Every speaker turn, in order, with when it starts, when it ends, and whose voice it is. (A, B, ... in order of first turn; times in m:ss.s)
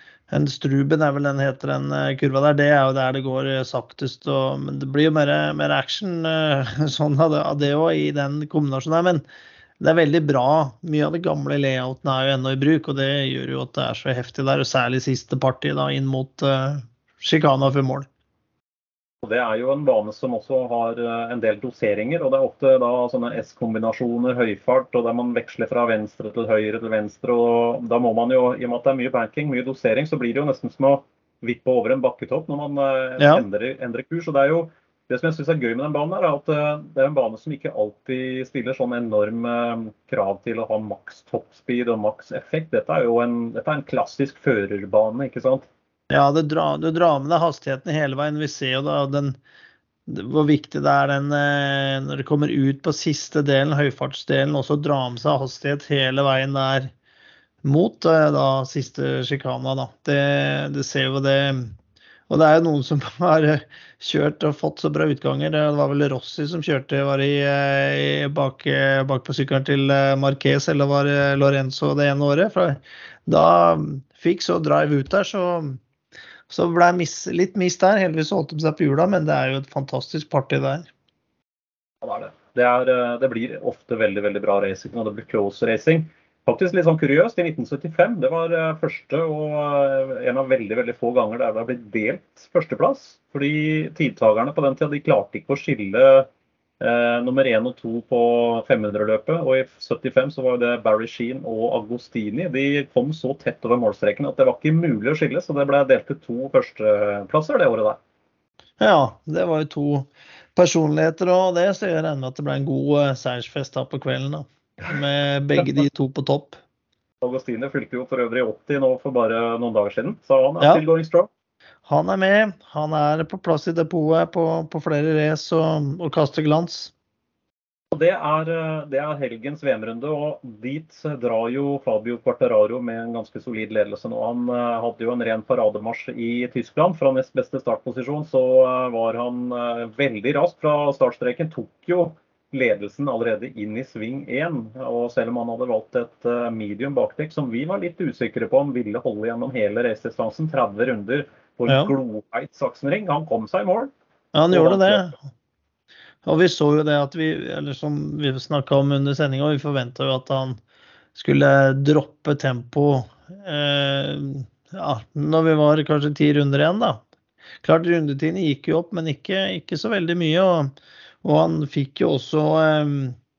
0:00.3-0:09.2 A
0:09.8-0:18.1 A
0:19.2-0:45.7 B
0:33.2-0:33.4 A
0:46.1-0:49.4 A
0:50.1-0:56.9 A
0:57.6-1:01.8 A
1:02.3-1:15.8 A
1:16.5-1:20.9 A
1:22.0-1:36.3 B
1:36.8-1:48.0 B
1:48.8-1:56.6 A
1:57.2-2:01.3 B
2:01.9-2:06.9 A
2:07.9-2:33.9 B
2:31.7-2:31.9 A
2:34.3-2:35.2 A
2:34.5-2:35.1 B
2:36.2-2:40.6 A
2:41.2-2:47.0 A
2:47.6-2:50.7 A
2:51.2-2:53.2 A